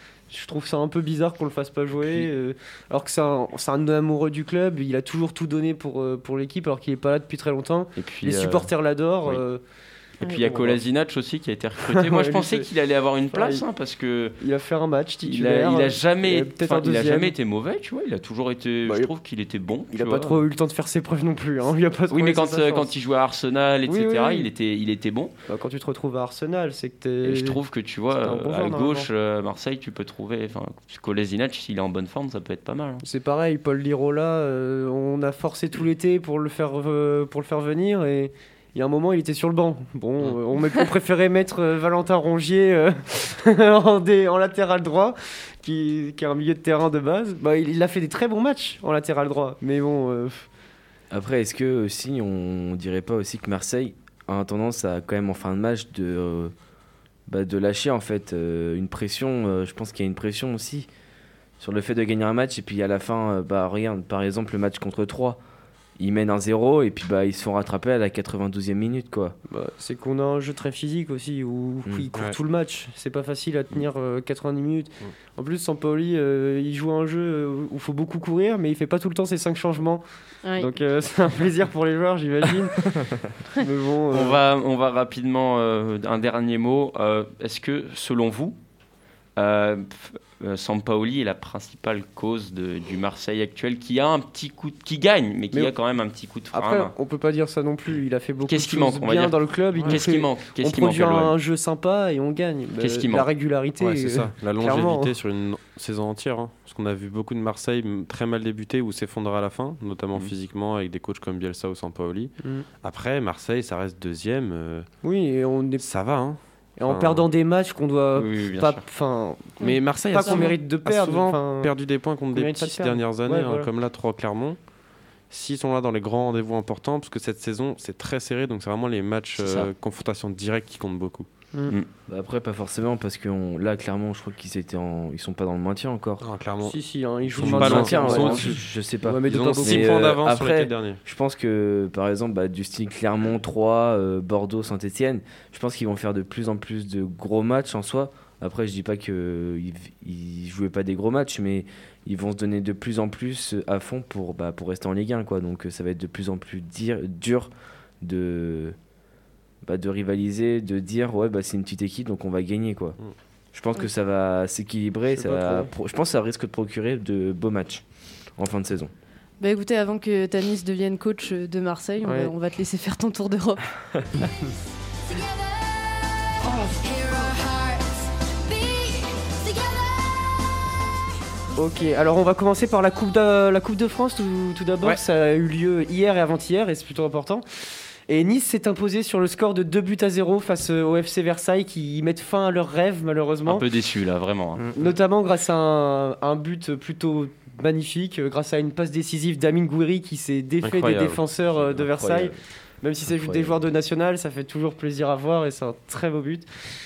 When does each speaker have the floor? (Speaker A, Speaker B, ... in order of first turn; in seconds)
Speaker A: 0.3-9.6, 10.3-10.8, 11.8-12.7, 13.3-13.6, 14.4-17.3, 18.9-19.1, 19.9-22.9, 23.9-24.5, 25.5-27.6, 28.1-29.1, 33.0-50.5, 69.5-80.0, 80.6-84.4, 96.5-105.1, 115.0-115.9, 116.8-121.8, 122.3-123.7, 136.6-140.1, 165.1-165.7, 172.0-172.3, 176.4-177.3, 181.6-187.4, 188.1-193.7, 194.7-206.5
Speaker B: 8.0-8.7, 10.2-14.4, 15.3-20.4, 22.1-25.3, 27.2-33.0, 84.1-88.6, 89.4-96.9, 98.5-101.3, 102.8-103.3, 118.1-118.8, 129.4-129.7, 193.4-194.7
Speaker C: 51.1-56.5, 57.3-60.9, 61.6-65.4, 66.0-69.4, 132.1-136.3, 137.3-158.8, 159.6-163.0, 163.5-167.8, 168.4-168.9, 201.6-202.4, 203.1-203.6
Speaker D: 80.4-80.7, 119.6-120.5, 169.4-173.7
Speaker E: 103.8-114.9, 115.8-117.3, 119.6-124.6, 125.3-131.3, 136.2-136.8, 137.3-138.6, 139.5-141.0, 200.6-201.2